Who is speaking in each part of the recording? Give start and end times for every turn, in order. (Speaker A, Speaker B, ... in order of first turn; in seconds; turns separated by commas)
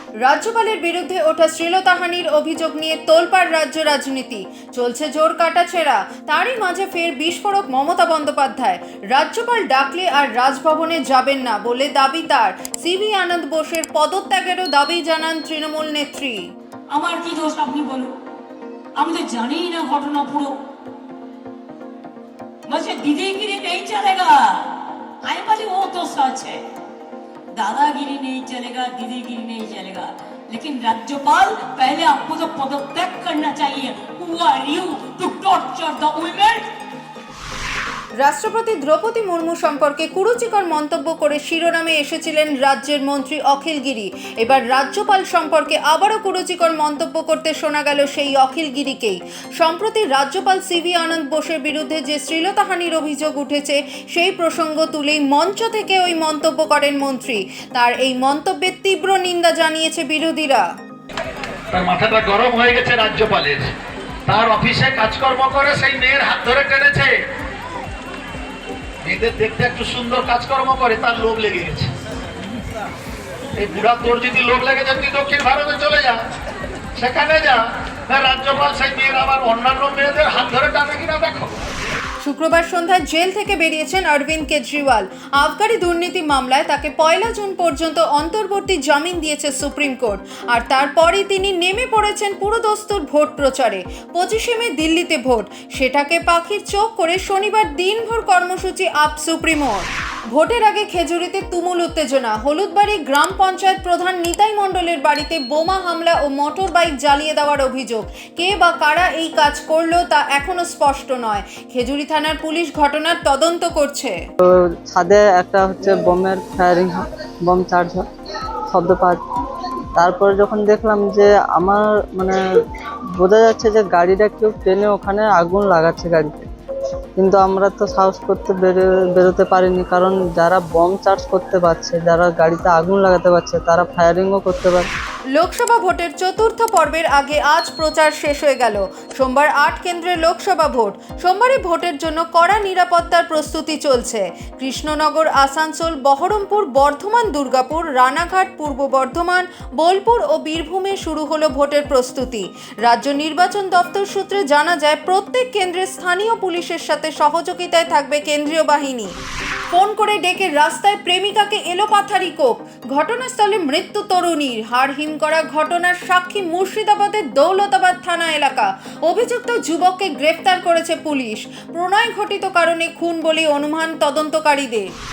Speaker A: 0.2-16.4, Speaker B: 16.9-18.2, Speaker B: 19.0-20.6, Speaker B: 22.7-26.6, Speaker B: 27.5-36.6, Speaker A: 38.2-60.7, Speaker C: 61.7-63.7, Speaker C: 64.3-67.1, Speaker C: 69.0-71.9, Speaker C: 73.6-76.2, Speaker C: 77.0-81.5, Speaker A: 82.2-114.2, Speaker D: 114.9-118.0, Speaker D: 118.7-119.2, Speaker D: 120.0-122.4, Speaker D: 123.2-126.5, Speaker D: 127.2-134.9, Speaker A: 135.4-159.2, Speaker A: 159.7-174.9